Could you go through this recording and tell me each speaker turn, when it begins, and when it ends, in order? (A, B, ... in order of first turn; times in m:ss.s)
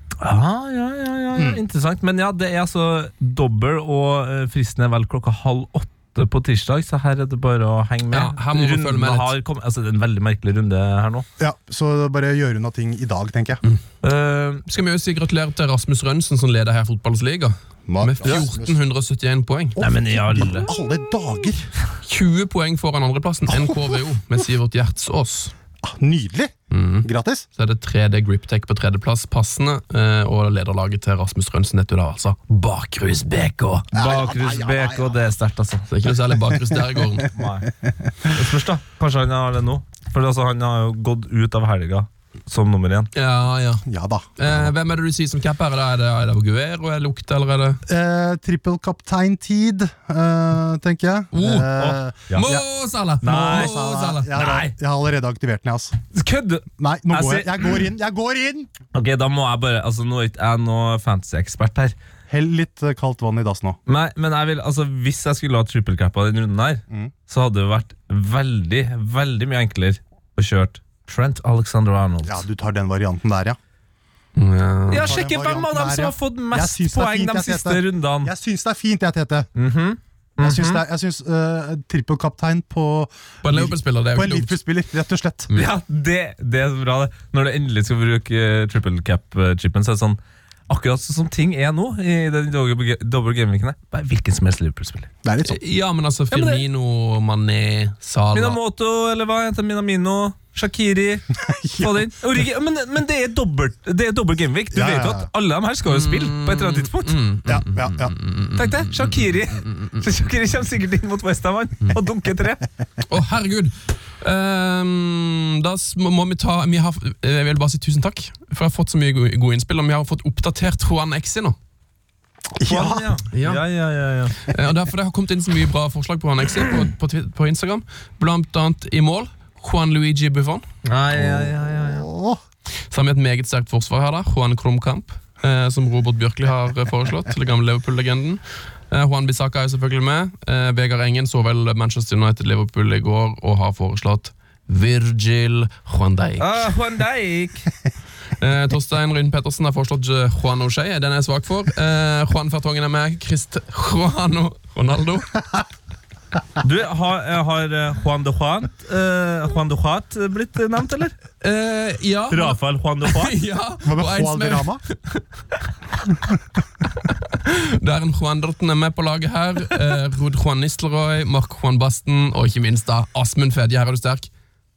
0:00.2-0:11.2 A
0:01.4-0:01.6 B
0:08.1-0:09.3 C
0:11.4-0:13.6 B
0:14.0-0:14.6 A
0:14.7-0:19.8 C
0:17.9-0:18.8 B
0:19.8-0:21.7 B
0:19.8-0:20.7 A
0:22.0-0:25.5 C
0:23.5-0:24.0 B
0:25.8-0:27.5 B
0:26.7-0:33.9 C
0:33.9-0:35.9 A
0:34.0-0:35.2 B
0:35.9-0:37.3 C
0:36.5-0:37.0 B
0:37.3-0:37.7 A
0:38.3-0:43.1 A
0:43.2-0:43.8 C
0:43.8-0:44.7 B
0:44.4-0:47.8 C
0:47.9-0:52.6 B
0:51.3-0:54.3 C
0:51.8-0:52.6 A
0:53.2-0:53.7 A
0:53.2-0:56.0 B
0:54.3-0:54.7 A
0:56.1-0:57.8 A
0:56.8-0:58.7 B
0:58.9-1:01.9 A
1:02.3-1:03.8 B
1:03.9-1:12.4 A
1:12.2-1:13.6 B
1:14.4-1:15.2 C
1:14.9-1:18.3 A
1:15.0-1:19.5 B
1:19.6-1:20.8 A
1:20.4-1:25.5 B
1:23.4-1:24.6 C
1:25.5-1:30.2 A
1:30.7-1:35.1 A
1:35.2-1:35.6 B
1:35.4-1:38.6 C
1:36.3-1:36.6 A
1:38.3-1:41.3 A
1:41.4-1:42.1 B
1:41.8-1:47.2 A
1:44.7-1:45.3 B
1:45.9-1:49.0 C
1:47.5-1:48.2 B
1:48.6-1:52.7 A
1:53.1-2:01.6 C
2:02.6-2:03.1 B
2:02.6-2:04.4 A
2:03.3-2:03.6 C
2:04.5-2:10.6 C
2:10.8-2:12.1 A
2:11.2-2:12.4 B
2:12.9-2:26.7 C
2:26.4-2:27.7 A
2:28.4-2:35.4 C
2:36.6-2:41.1 A
2:41.4-2:45.2 C
2:42.3-2:43.4 A
2:43.8-2:44.8 B
2:47.3-2:54.3 C